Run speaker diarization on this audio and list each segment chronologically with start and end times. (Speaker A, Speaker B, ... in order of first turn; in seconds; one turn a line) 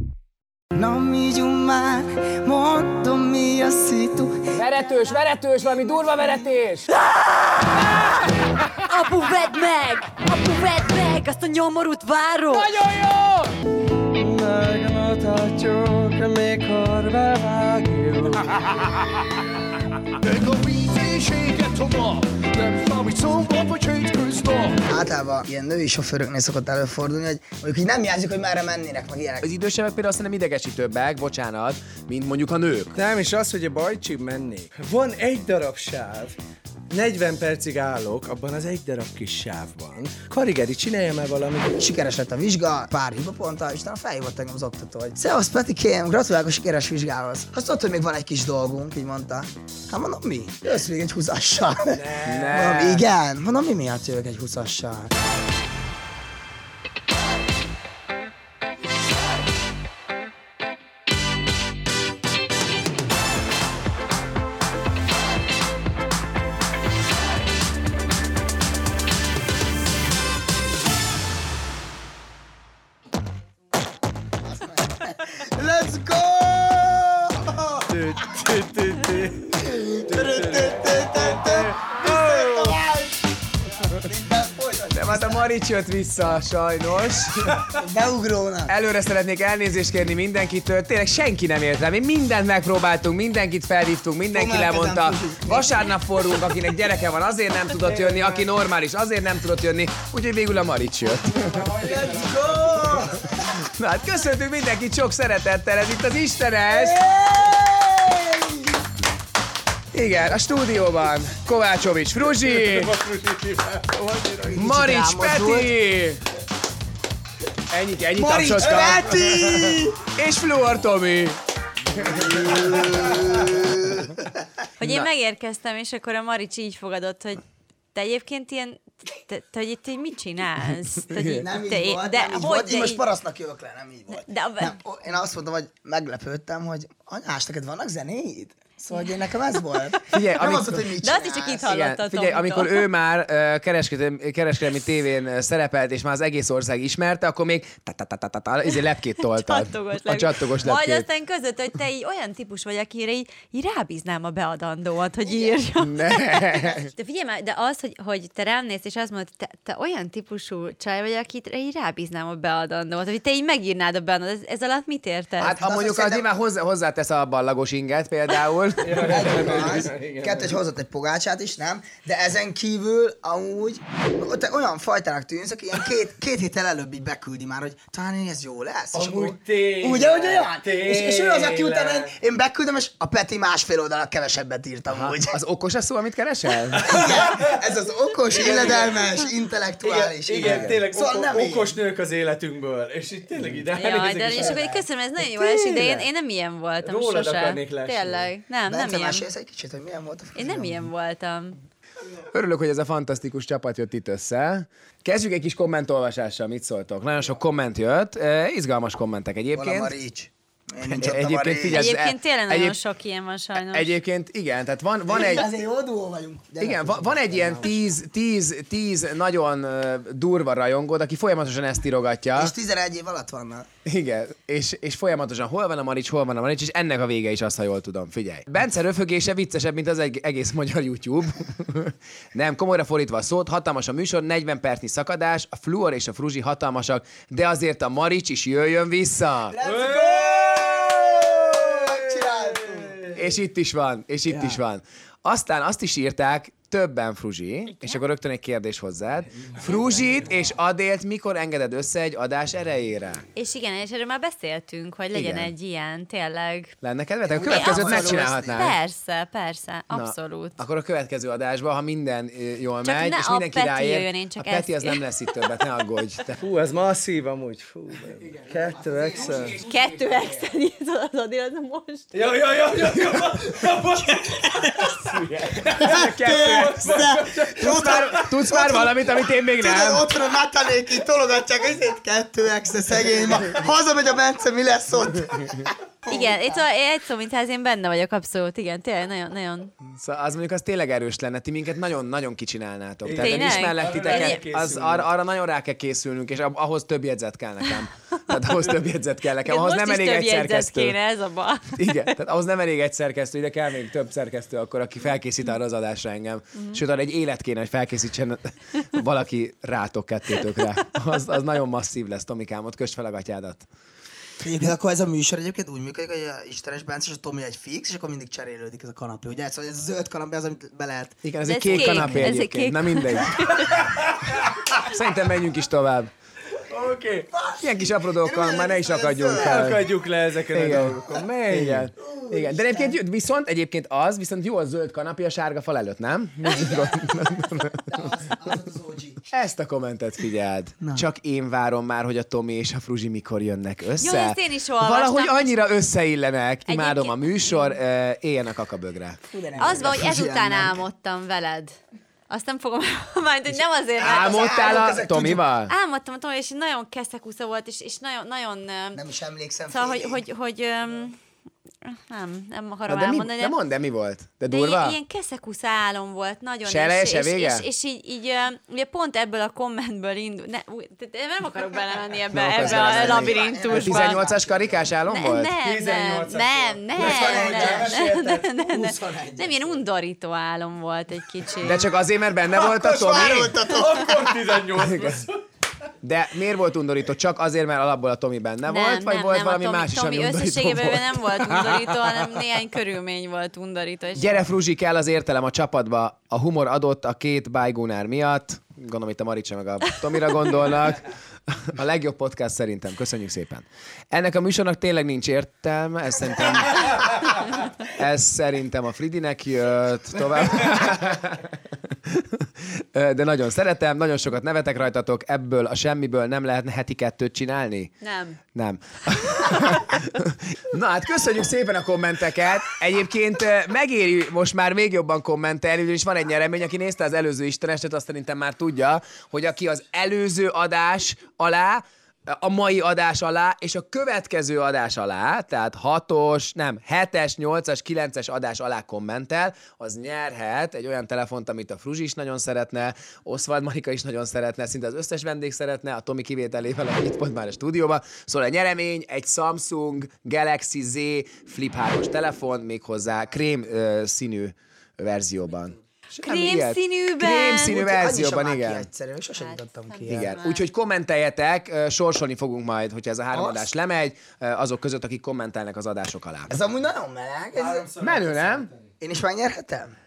Speaker A: 0.7-4.5
Speaker B: 4.5-6.9
Speaker C: 7.6-8.1
Speaker C: 8.8-12.7
Speaker B: 12.5-13.5
Speaker D: 14.1-18.5
Speaker E: 20.2-24.8
Speaker A: 24.9-29.5
Speaker B: 29.4-33.0
Speaker D: 32.9-36.4
Speaker D: 36.9-41.8
Speaker A: 41.8-55.1
Speaker D: 51.9-52.6
Speaker B: 52.2-53.0
Speaker A: 74.4-77.9
Speaker D: 77.8-82.8
Speaker A: 79.5-85.5
Speaker B: 84.9-87.6
Speaker A: 87.6-88.7
Speaker B: 88.7-101.7
Speaker A: 94.3-95.8
Speaker D: 97.8-98.5
Speaker D: 101.3-103.1
Speaker A: 101.8-103.3
Speaker B: 103.6-107.0
Speaker A: 106.7-108.7
Speaker B: 109.9-112.9
Speaker D: 112.4-114.8
Speaker A: 114.5-115.7
Speaker B: 114.5-116.2
Speaker B: 117.7-121.4
Speaker A: 118.1-120.0
Speaker D: 118.6-119.0
Speaker B: 122.0-122.8
Speaker A: 122.0-124.3
Speaker B: 124.8-125.1
Speaker C: 124.8-127.4
Speaker C: 127.9-133.0
Speaker B: 131.1-131.4
Speaker A: 131.2-141.7
Speaker C: 134.1-134.8
Speaker B: 140.1-140.9
Speaker C: 141.0-142.8
Speaker B: 141.6-151.1
Speaker C: 149.2-165.5
Speaker A: 155.2-155.6
Speaker B: 155.8-156.9
Speaker B: 165.4-169.7
Speaker A: 165.4-166.2
Speaker D: 168.8-170.6
Speaker A: 169.0-185.4
Speaker D: 178.9-182.1
Speaker B: 184.9-187.0
Speaker D: 186.7-187.6
Speaker A: 186.8-191.8
Speaker D: 188.3-189.2
Speaker D: 189.8-196.1
Speaker B: 190.4-190.8
Speaker C: 193.7-199.2
Speaker A: 194.3-194.6
Speaker D: 196.8-198.3
Speaker A: 198.7-200.9
Speaker C: 200.3-201.6
Speaker B: 202.3-209.9
Speaker A: 209.5-211.8
Speaker B: 210.8-212.8
Speaker C: 211.7-213.9
Speaker B: 213.5-215.5
Speaker A: 215.1-217.7
Speaker B: 216.6-222.5
Speaker A: 222.3-223.7
Speaker B: 223.8-239.6
Speaker A: 239.5-243.1
Speaker D: 239.6-243.2
Speaker B: 243.2-253.2
Speaker D: 244.3-244.6
Speaker C: 247.7-248.0
Speaker D: 249.4-250.5
Speaker C: 253.3-256.7
Speaker B: 255.1-255.5
Speaker B: 256.8-258.8
Speaker A: 257.3-258.6
Speaker C: 257.4-260.6
Speaker B: 259.9-266.4
Speaker C: 262.8-265.0
Speaker D: 266.4-269.6
Speaker A: 269.1-269.6
Speaker B: 269.2-270.5
Speaker C: 269.6-272.1
Speaker D: 272.1-278.3
Speaker B: 275.1-280.1
Speaker A: 275.7-286.6
Speaker C: 286.1-289.7
Speaker B: 289.9-301.0
Speaker D: 293.0-295.1
Speaker C: 293.2-294.4
Speaker C: 299.4-301.9
Speaker B: 301.7-313.7
Speaker A: 314.4-322.2
Speaker B: 321.2-323.6
Speaker C: 321.4-323.9
Speaker D: 324.1-324.5
Speaker B: 324.6-326.1
Speaker D: 326.5-327.3
Speaker A: 327.3-329.7
Speaker B: 327.6-329.9
Speaker D: 329.3-331.9
Speaker B: 330.5-338.0
Speaker A: 332.0-332.9
Speaker A: 336.5-339.2
Speaker B: 339.3-349.9
Speaker C: 344.0-345.6
Speaker C: 346.7-347.8
Speaker A: 349.3-350.8
Speaker C: 349.6-351.7
Speaker C: 352.3-354.8
Speaker A: 354.0-355.4
Speaker B: 354.0-355.7
Speaker C: 355.7-359.0
Speaker A: 358.9-360.2
Speaker C: 359.7-361.2
Speaker C: 361.8-363.6
Speaker B: 362.9-365.0
Speaker C: 364.5-374.2
Speaker B: 366.6-367.6
Speaker B: 372.3-375.6
Speaker A: 372.5-374.9
Speaker C: 375.1-381.9
Speaker D: 375.6-378.2
Speaker A: 376.9-379.8
Speaker B: 381.6-383.7
Speaker D: 382.6-385.4
Speaker A: 382.6-384.3
Speaker B: 384.8-385.2
Speaker B: 386.0-392.4
Speaker C: 388.6-394.4
Speaker B: 394.2-407.2
Speaker B: 407.9-417.9
Speaker C: 418.0-418.4
Speaker B: 418.5-458.9
Speaker C: 456.2-457.7
Speaker A: 457.6-460.4
Speaker C: 459.4-460.7
Speaker B: 460.1-466.5
Speaker A: 463.3-463.6
Speaker A: 466.5-467.9
Speaker D: 467.6-468.9
Speaker B: 468.0-468.7
Speaker A: 469.0-469.9